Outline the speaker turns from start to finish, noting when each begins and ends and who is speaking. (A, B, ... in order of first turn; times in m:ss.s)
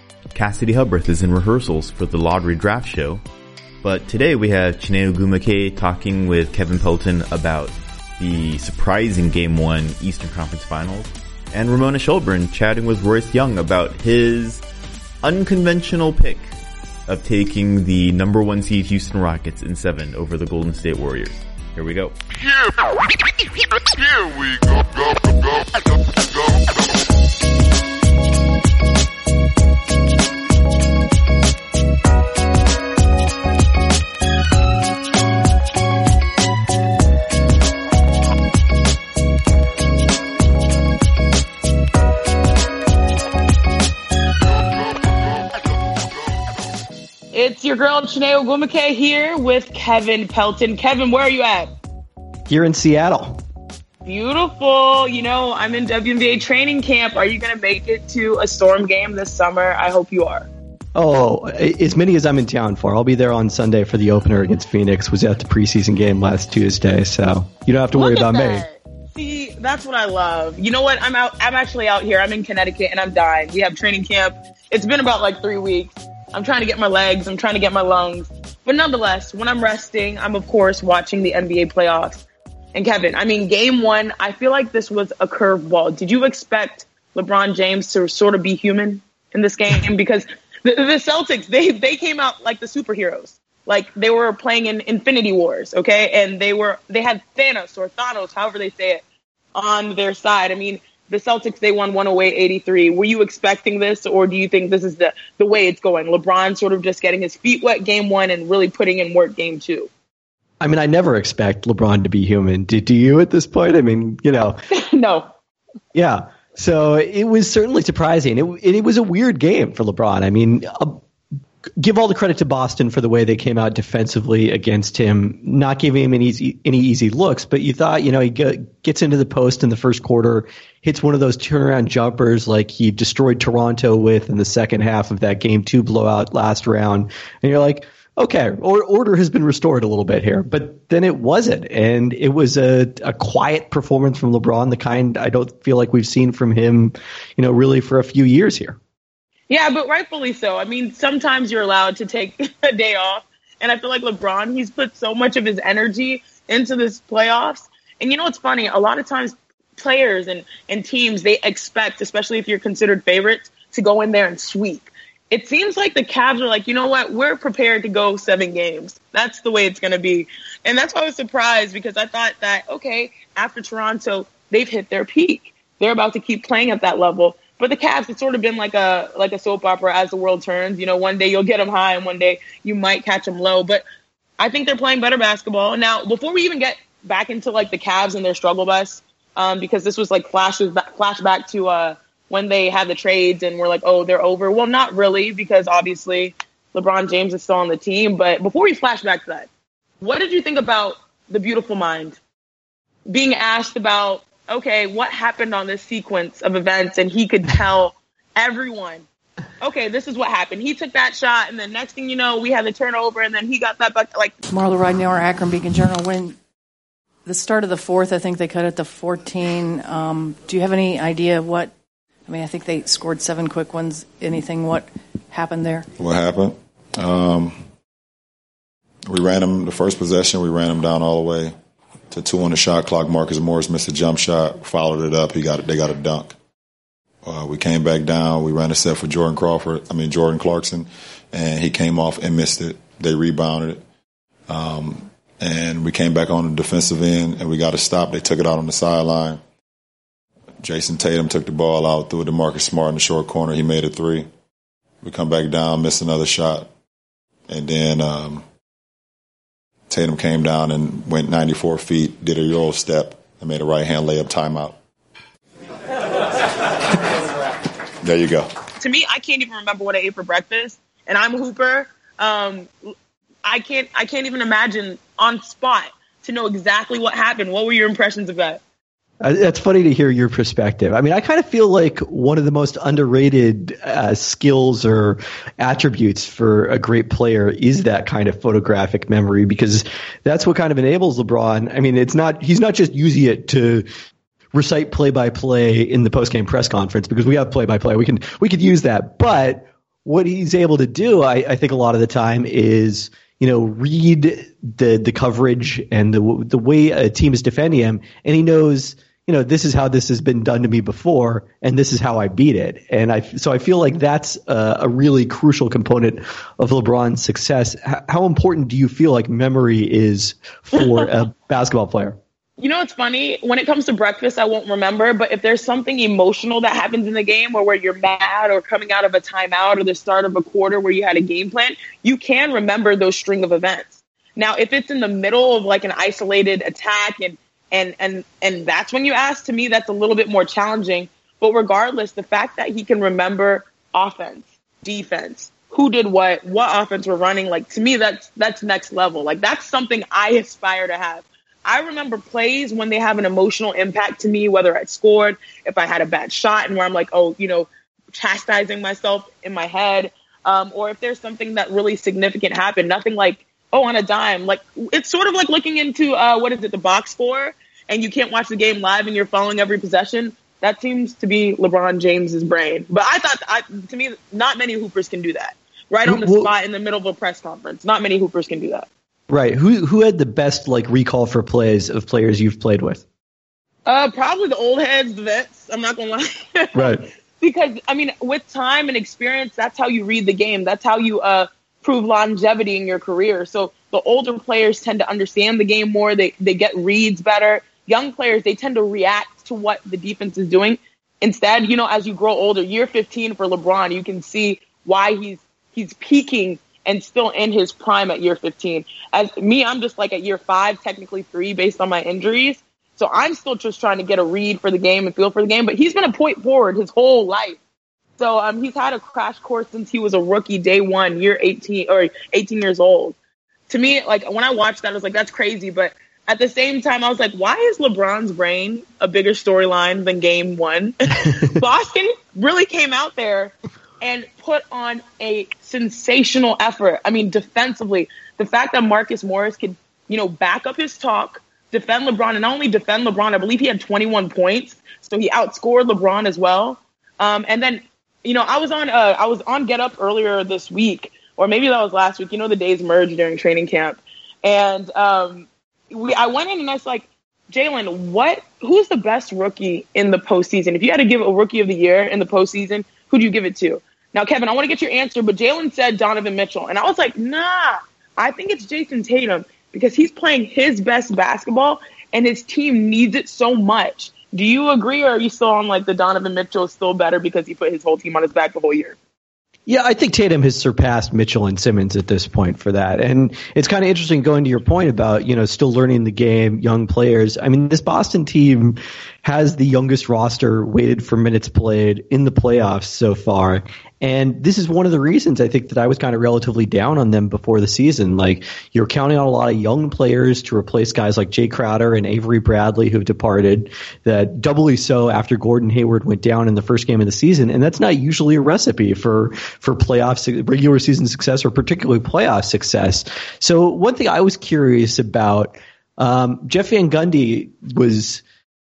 0:00.3-0:03.2 A
0:03.8-0:14.6 A
0:15.2-0:16.5 A
0:17.1-0:22.2 A
0:47.3-0:51.7 B
0:52.5-0:53.4 C
0:54.0-1:00.5 B
1:00.9-1:08.6 C
1:07.9-1:22.2 B
1:22.7-1:39.0 B
1:39.5-1:49.9 B
1:50.6-1:54.6 C
1:54.7-1:55.3 B
1:55.9-2:01.0 C
2:01.8-2:28.8 C
2:29.5-3:03.8 B
3:04.4-3:19.5 B
3:20.0-3:22.2 B
3:23.1-3:29.0 B
3:29.6-3:34.4 B
3:34.5-3:36.4 D
3:37.2-3:41.7 D
3:42.3-3:45.8 D
3:46.0-3:47.6 E
3:49.1-3:51.5 E
3:52.1-3:56.4 E
3:57.2-4:03.8 E
4:04.5-4:09.4 E
4:10.6-4:14.3 E
4:15.0-4:16.7 E
4:17.5-4:18.4 E
4:19.9-4:24.8 E
4:28.0-4:28.5 E
4:28.8-4:32.7 B
4:33.4-4:38.6 B
4:39.2-4:53.9 C
4:54.5-5:22.2 C
5:22.6-6:18.9 B
6:16.0-6:16.5 C
6:19.3-6:23.0 C
6:23.8-6:57.6 B
6:26.7-6:27.0 C
6:58.2-7:03.2 B
7:03.7-7:59.0 B
7:59.7-8:38.2 C